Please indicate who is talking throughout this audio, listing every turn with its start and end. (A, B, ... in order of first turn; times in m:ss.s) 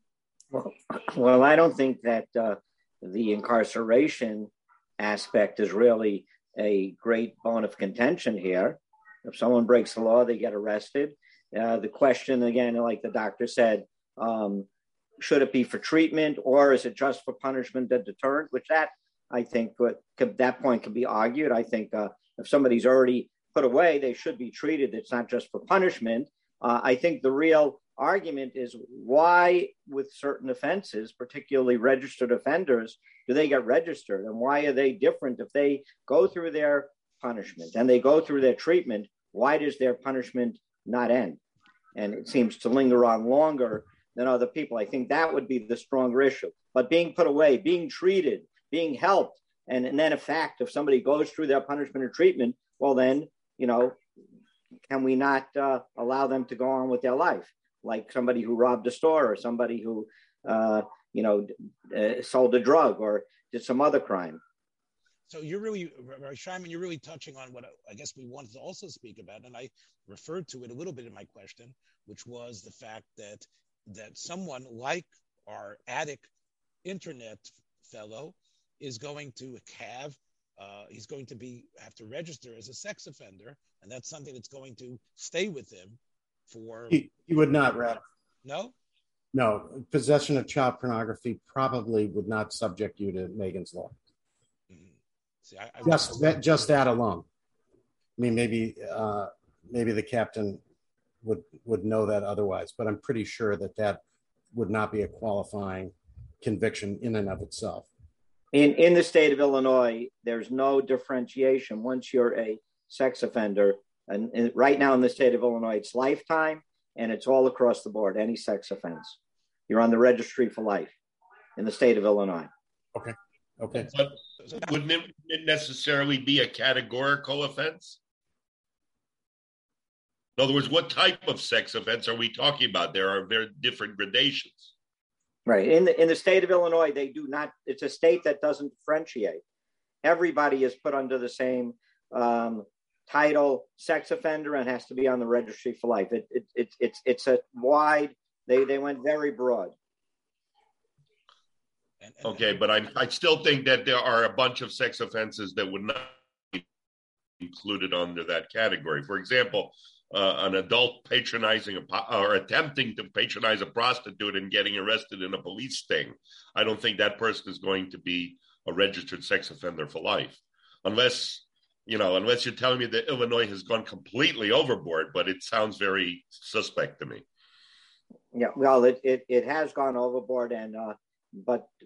0:00.5-0:14.7 A
0:15.2-0:41.4 A
0:41.9-0:54.0 A
0:54.9-1:04.4 A
1:05.3-1:16.3 B
1:16.8-1:27.1 B
1:26.9-1:28.0 C
1:28.4-1:28.7 B
1:29.3-1:34.0 C
1:34.7-1:36.7 B
1:35.8-1:37.3 C
1:38.2-1:40.6 C
1:41.2-1:44.0 C
1:44.5-1:47.9 C
1:48.5-1:59.2 A
1:59.7-2:00.9 A
2:01.6-2:02.5 A
2:02.9-2:03.9 C
2:03.8-2:08.0 D
2:10.4-2:14.7 D
2:15.4-2:19.4 A
2:20.0-2:29.7 A
2:32.0-2:32.6 B
2:32.2-2:36.6 D
2:37.4-2:57.2 D
2:58.3-3:01.7 A